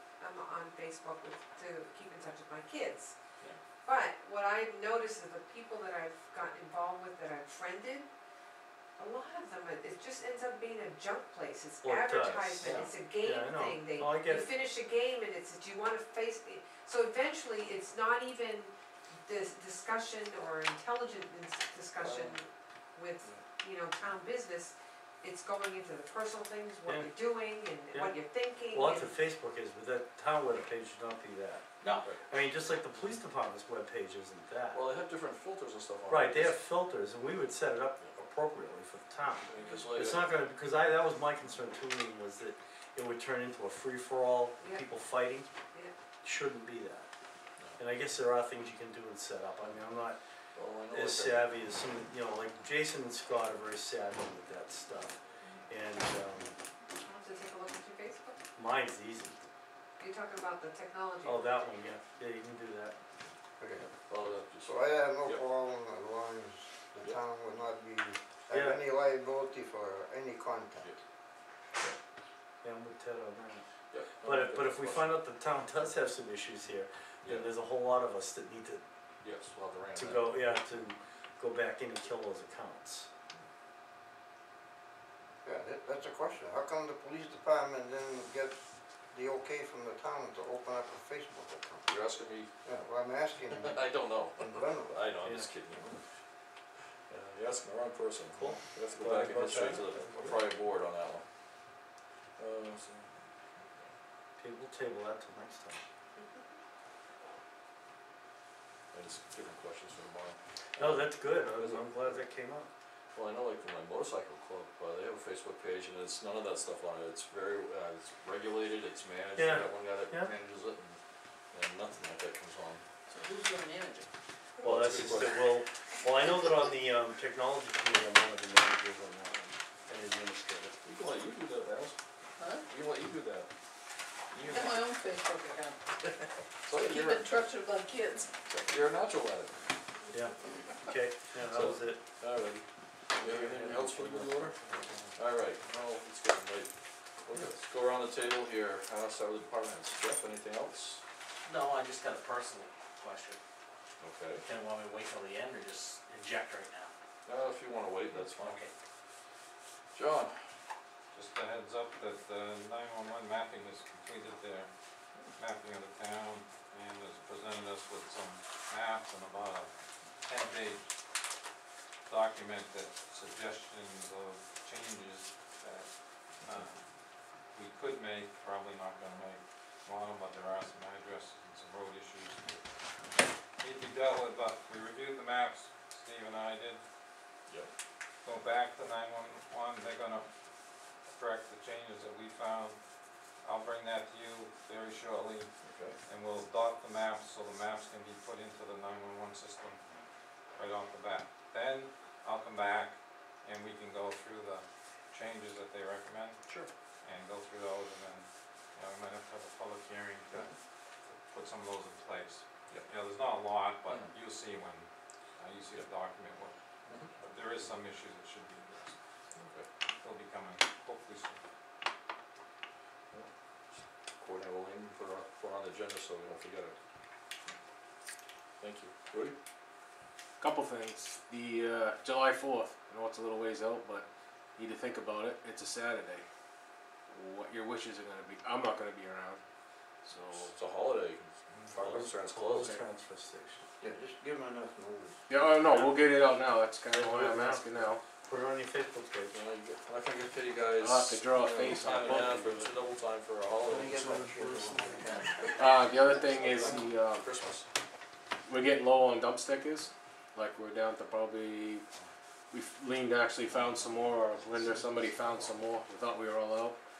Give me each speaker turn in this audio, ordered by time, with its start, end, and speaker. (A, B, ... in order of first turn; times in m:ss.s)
0:00.2-0:03.1 A
0:03.8-0:08.1 A
0:09.0-0:29.1 A
0:11.8-0:14.5 B
0:12.6-0:12.9 C
0:22.0-0:22.3 D
0:26.9-0:27.2 B
0:28.7-0:31.6 B
0:31.8-0:32.1 C
0:32.3-0:34.8 B
0:34.7-0:36.6 D
0:36.1-0:45.5 B
0:39.4-0:40.3 D
0:44.6-0:44.9 A
0:46.2-0:47.1 B
0:47.8-0:50.2 B
0:50.6-0:51.5 D
0:50.9-0:55.2 B
0:55.7-0:56.5 B
0:57.0-0:58.4 A
0:58.6-0:59.4 B
1:00.0-1:01.6 A
1:01.2-1:03.0 B
1:03.6-1:03.9 E
1:03.8-1:05.4 D
1:04.6-1:11.0 E
1:08.5-1:08.8 B
1:12.6-1:13.6 B
1:13.9-1:15.2 D
1:14.2-1:18.8 B
1:19.2-1:20.3 D
1:19.9-1:23.1 B
1:25.4-1:32.0 E
1:31.9-1:32.5 D
1:32.6-1:35.0 E
1:33.6-1:36.0 D
1:35.2-1:35.5 B
1:37.1-1:41.2 D
1:38.3-1:40.4 B
1:42.4-1:43.9 D
1:44.4-1:45.8 B
1:46.2-1:46.4 A
1:48.9-1:52.3 D
1:50.8-1:52.7 B
1:53.2-2:01.0 D
1:59.3-2:00.3 B
2:01.5-2:02.8 D
2:03.1-2:04.0 C
2:04.6-2:05.5 F
2:04.6-2:05.3 D
2:04.6-2:10.8 B
2:10.8-2:12.0 D
2:12.4-2:12.7 F
2:12.7-2:13.5 D
2:14.3-2:14.9 D
2:14.4-2:15.8 F
2:16.7-2:17.4 D
2:16.7-2:18.4 F
2:18.5-2:19.6 D
2:20.1-2:22.0 B
2:21.4-2:22.6 D
2:23.2-2:24.6 D
2:23.2-2:25.1 B
2:25.1-2:26.7 D
2:27.2-2:31.0 D
2:31.4-2:33.4 C
2:34.0-2:34.4 D
2:34.4-2:36.9 C
2:37.2-2:38.6 D
2:38.3-2:38.7 C
2:39.9-2:40.3 D
2:41.1-2:44.7 G
2:45.3-2:49.7 G
2:50.2-2:50.8 G
2:52.1-2:55.9 G
2:56.4-2:56.8 G
2:57.5-3:02.6 G
3:03.6-3:06.8 G
3:08.2-3:10.3 G
3:11.1-3:12.8 G
3:13.4-3:15.5 G
3:15.6-3:16.0 D
3:16.0-3:19.8 G
3:20.5-3:26.4 G
3:27.0-3:30.5 G
3:31.0-3:36.5 G
3:36.9-3:37.1 D
3:37.2-3:39.0 G
3:39.4-3:39.7 D
3:40.0-3:41.4 G
3:44.2-3:46.8 D
3:48.6-3:49.3 D
3:50.4-3:56.2 H
3:57.1-3:59.4 H
4:00.0-4:00.5 H
4:00.4-4:02.8 D
4:01.8-4:03.6 B
4:03.8-4:05.2 E
4:05.3-4:08.0 H
4:05.6-4:06.1 B
4:06.9-4:09.4 B
4:09.3-4:14.7 D
4:10.7-4:12.7 H
4:13.5-4:15.7 E
4:15.4-4:17.7 D
4:15.6-4:17.3 H
4:18.4-4:21.8 H
4:22.5-4:26.8 H